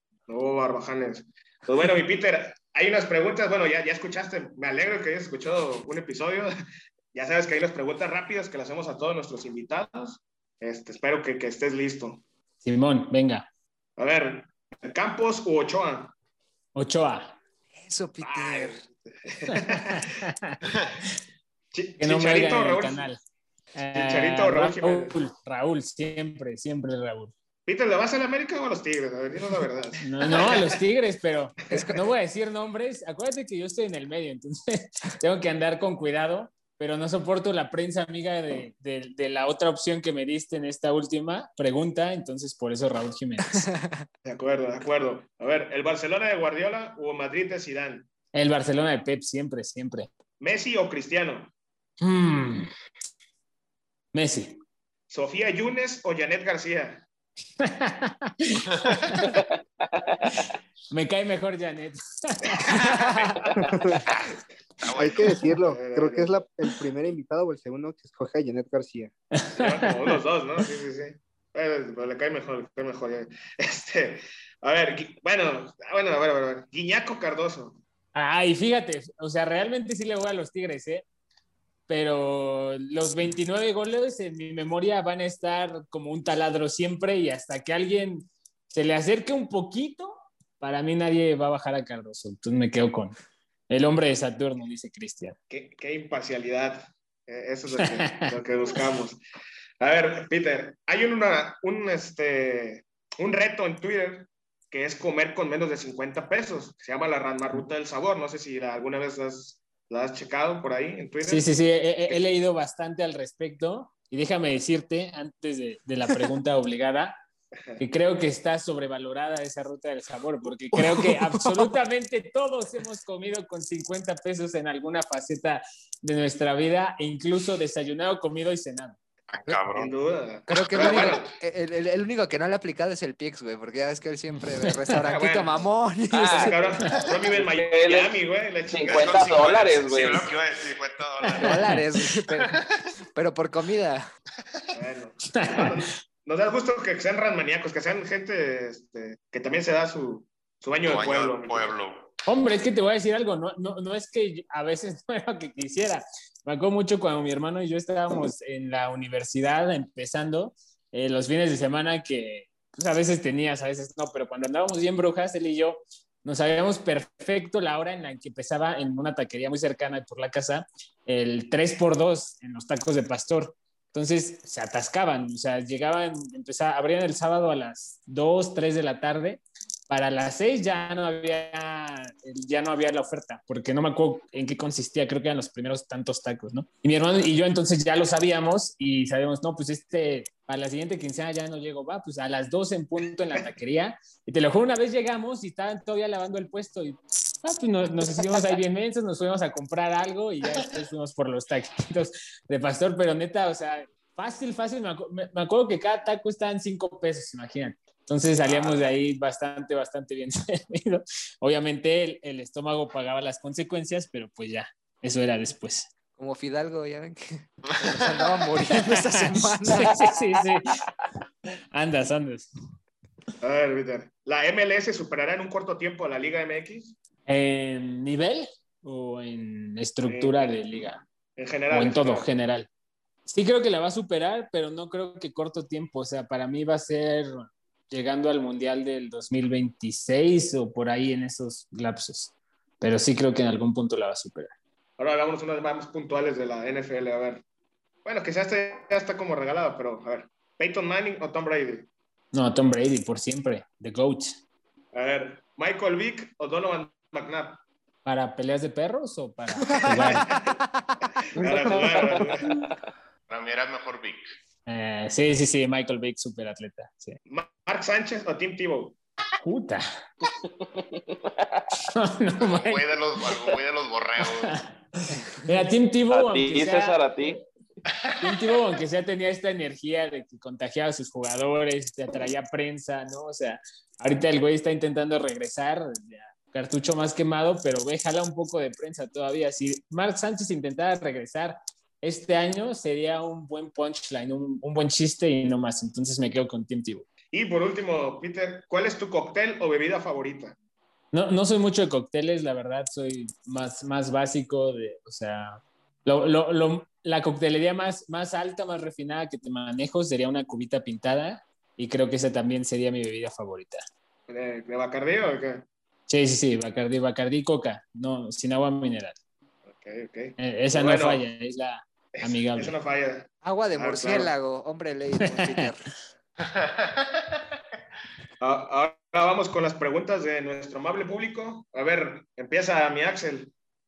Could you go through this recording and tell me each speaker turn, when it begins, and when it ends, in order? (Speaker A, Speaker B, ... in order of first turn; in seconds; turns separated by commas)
Speaker A: 0.3-6.5, Speaker A: 7.1-12.2, Speaker B: 12.6-13.5, Speaker A: 14.0-16.1, Speaker B: 16.7-17.4, Speaker C: 17.7-18.8, Speaker A: 18.2-20.0, Speaker B: 19.5-20.6, Speaker A: 21.7-23.1, Speaker B: 22.0-23.2, Speaker B: 23.8-27.3, Speaker A: 23.9-25.2, Speaker A: 27.6-30.7, Speaker B: 30.0-43.7, Speaker C: 43.4-44.1, Speaker A: 44.2-48.1, Speaker B: 48.3-50.1, Speaker A: 50.4-51.5, Speaker B: 52.0-52.7, Speaker B: 54.1-54.6, Speaker A: 55.1-57.0, Speaker B: 57.6-59.3, Speaker D: 59.3-60.5, Speaker B: 60.9-62.9, Speaker E: 64.8-65.1, Speaker A: 64.9-66.3, Speaker F: 65.0-69.1, Speaker B: 69.3-70.1, Speaker A: 69.5-77.8, Speaker B: 78.1-81.0, Speaker B: 81.9-93.1, Speaker B: 93.7-95.3, Speaker A: 95.5-99.2, Speaker A: 99.8-111.5, Speaker B: 111.2-117.1, Speaker B: 117.8-129.0, Speaker C: 120.7-121.7, Speaker E: 129.3-129.9, Speaker A: 129.7-131.2, Speaker C: 130.5-136.9, Speaker E: 130.6-131.2, Speaker A: 135.0-135.7, Speaker D: 136.1-138.2, Speaker A: 136.3-139.3, Speaker D: 138.7-140.3, Speaker E: 138.9-141.6, Speaker C: 141.4-142.6, Speaker B: 141.4-141.8, Speaker E: 142.1-142.6, Speaker C: 143.1-144.1, Speaker A: 144.7-151.8, Speaker B: 145.3-145.8, Speaker E: 150.8-152.1, Speaker B: 152.3-215.9, Speaker C: 216.2-220.0, Speaker B: 218.9-220.7, Speaker B: 221.7-222.5, Speaker A: 223.4-226.9, Speaker B: 227.3-231.0, Speaker A: 230.1-230.4, Speaker A: 231.4-232.3, Speaker B: 231.7-232.7, Speaker B: 233.2-244.5, Speaker A: 245.0-247.4, Speaker A: 248.0-251.9, Speaker B: 252.3-254.4, Speaker A: 254.9-257.6, Speaker B: 258.0-260.3, Speaker C: 259.7-261.0, Speaker A: 260.0-260.6, Speaker A: 261.4-262.4, Speaker D: 262.5-262.7, Speaker E: 263.3-264.2, Speaker B: 264.7-267.2, Speaker A: 267.3-269.0, Speaker B: 269.4-269.8, Speaker D: 270.4-271.6, Speaker B: 271.9-272.8, Speaker E: 272.4-274.6, Speaker B: 274.2-274.7, Speaker B: 275.4-277.0, Speaker D: 276.1-277.4, Speaker B: 278.2-297.1, Speaker A: 297.3-300.5, Speaker B: 301.1-313.8, Speaker A: 314.3-315.6, Speaker B: 316.1-319.1, Speaker A: 319.7-321.2, Speaker B: 320.4-322.8, Speaker A: 322.1-324.3, Speaker C: 323.4-325.8, Speaker B: 325.3-325.6, Speaker E: 326.4-327.4, Speaker A: 328.4-333.5